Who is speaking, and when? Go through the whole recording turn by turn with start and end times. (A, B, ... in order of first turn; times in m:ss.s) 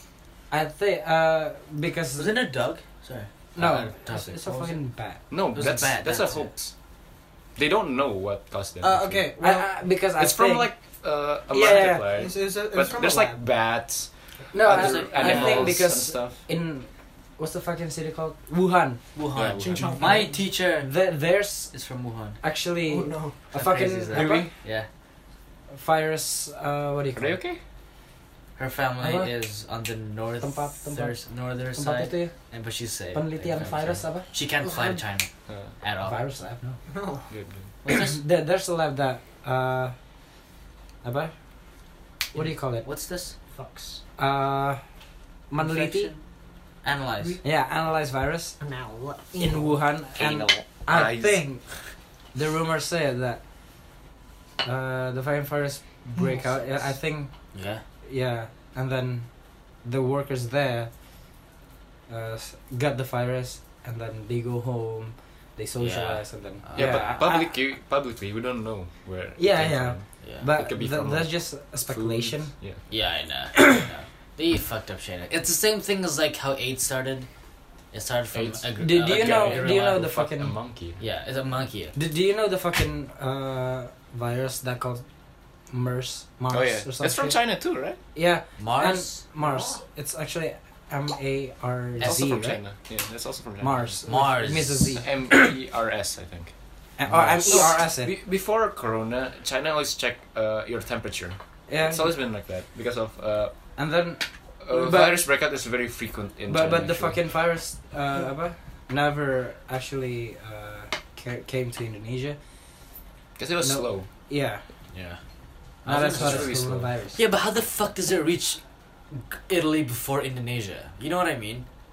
0:00.5-0:02.3 A
0:02.2-0:04.7 B
0:03.6-0:05.2 A
0:05.3-0:06.7 C
0:05.5-0:06.5 B
0:07.6-0:09.3 C
0:08.8-0:09.7 D
0:09.4-0:10.7 A
0:10.2-0:16.4 C
0:11.5-0:12.1 A
0:12.1-0:13.4 D
0:14.5-0:19.0 A
0:14.6-0:15.8 B
0:19.1-0:20.9 B
0:19.3-0:20.0 C
0:19.6-0:20.4 D
0:20.8-0:21.7 A
0:21.7-0:22.4 B
0:22.4-0:24.5 A
0:22.9-0:23.5 D
0:23.5-0:24.9 B
0:24.1-0:24.5 C
0:25.7-0:27.4 A
0:27.1-0:27.6 C
0:28.6-0:36.2 B
0:29.0-0:29.3 A
0:30.4-0:31.2 A
0:31.7-0:32.3 A
0:33.1-0:34.3 A
0:34.6-0:35.0 D
0:35.5-0:35.7 C
0:36.0-0:36.8 A
0:36.9-0:37.3 D
0:37.3-0:37.7 C
0:37.8-0:38.2 B
0:37.8-0:39.9 A
0:41.0-0:41.3 A
0:42.3-0:42.8 A
0:42.3-0:43.4 B
0:43.5-0:44.0 D
0:44.2-0:44.8 A
0:45.5-0:46.1 A
0:45.6-0:46.2 B
0:46.8-0:47.4 B
0:47.4-0:48.6 A
0:48.6-0:49.8 D
0:49.4-0:51.8 A
0:50.1-0:51.5 C
0:52.3-0:53.4 A
0:54.6-1:00.9 A
0:56.2-0:56.6 D
0:57.5-0:57.8 B
1:02.1-1:07.5 A
1:05.8-1:07.0 B
1:06.7-1:12.8 C
1:09.4-1:12.5 A
1:10.2-1:10.5 B
1:12.9-1:17.3 B
1:17.9-1:20.0 B
1:18.3-1:21.0 C
1:18.8-1:20.6 A
1:21.0-1:21.9 B
1:21.9-1:25.0 A
1:25.7-1:27.4 A
1:26.5-1:28.0 C
1:28.1-1:32.6 A
1:28.6-1:29.8 B
1:32.0-1:34.0 C
1:33.6-1:35.5 A
1:34.0-1:35.0 B
1:35.0-1:36.5 C
1:37.0-1:38.1 A
1:37.1-1:37.7 B
1:37.1-1:43.6 C
1:41.7-1:42.1 A
1:43.8-1:45.2 A
1:44.6-1:47.2 C
1:46.5-1:52.4 A
1:53.4-1:54.1 C
1:53.6-1:54.6 A
1:54.9-1:55.2 B
1:55.8-1:56.5 B
1:55.8-1:57.2 A
1:55.9-1:56.9 C
1:57.1-2:01.7 B